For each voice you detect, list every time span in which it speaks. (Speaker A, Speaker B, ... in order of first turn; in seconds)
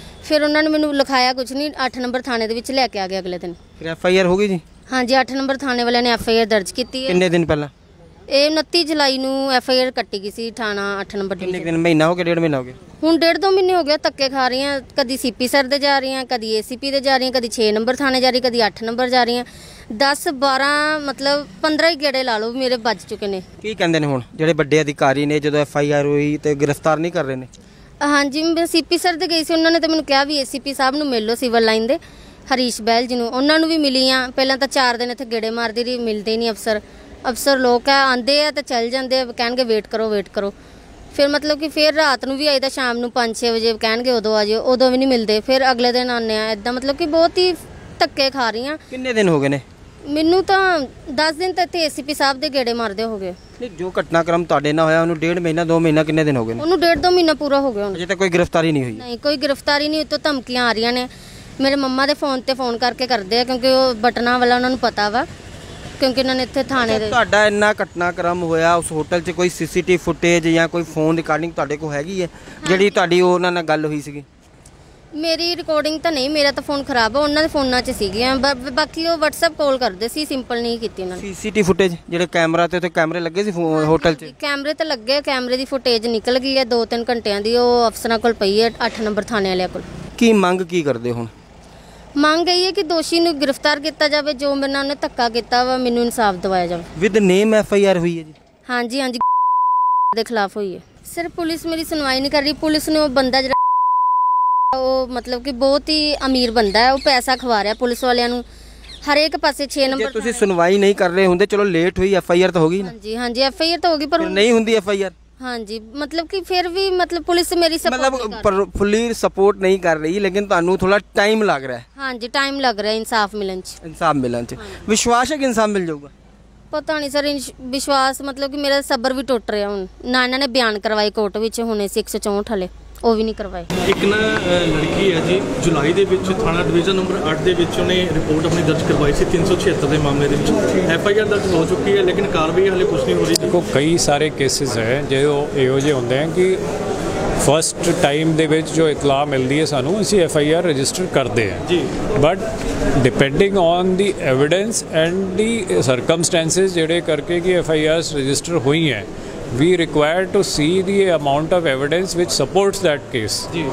Speaker A: 0.2-3.6, 4.9-7.2, 8.3-11.7, 13.0-23.4, 28.0-40.5, 41.1-48.8, 50.0-53.4, 56.6-58.0, 59.0-65.3, 66.0-67.2, 75.1-81.2, 83.7-89.8, 92.2-96.9, 98.7-99.2, 100.1-103.6, 104.7-108.4, 109.0-110.4, 112.8-114.5, 115.4-118.5, 122.0-123.8, 126.7-133.7
Speaker B: 3.8-4.6, 7.1-7.7, 11.4-12.8, 23.6-27.5, 48.9-49.6, 53.6-56.6, 57.9-59.0, 66.8-74.3, 81.2-84.3, 90.2-91.3, 97.0-98.4, 109.9-112.9, 114.2-115.2, 117.8-121.9, 123.8-126.1
Speaker C: 133.8-143.5, 151.7-151.9
Speaker D: 143.5-146.6, 147.4-152.4, 153.0-163.6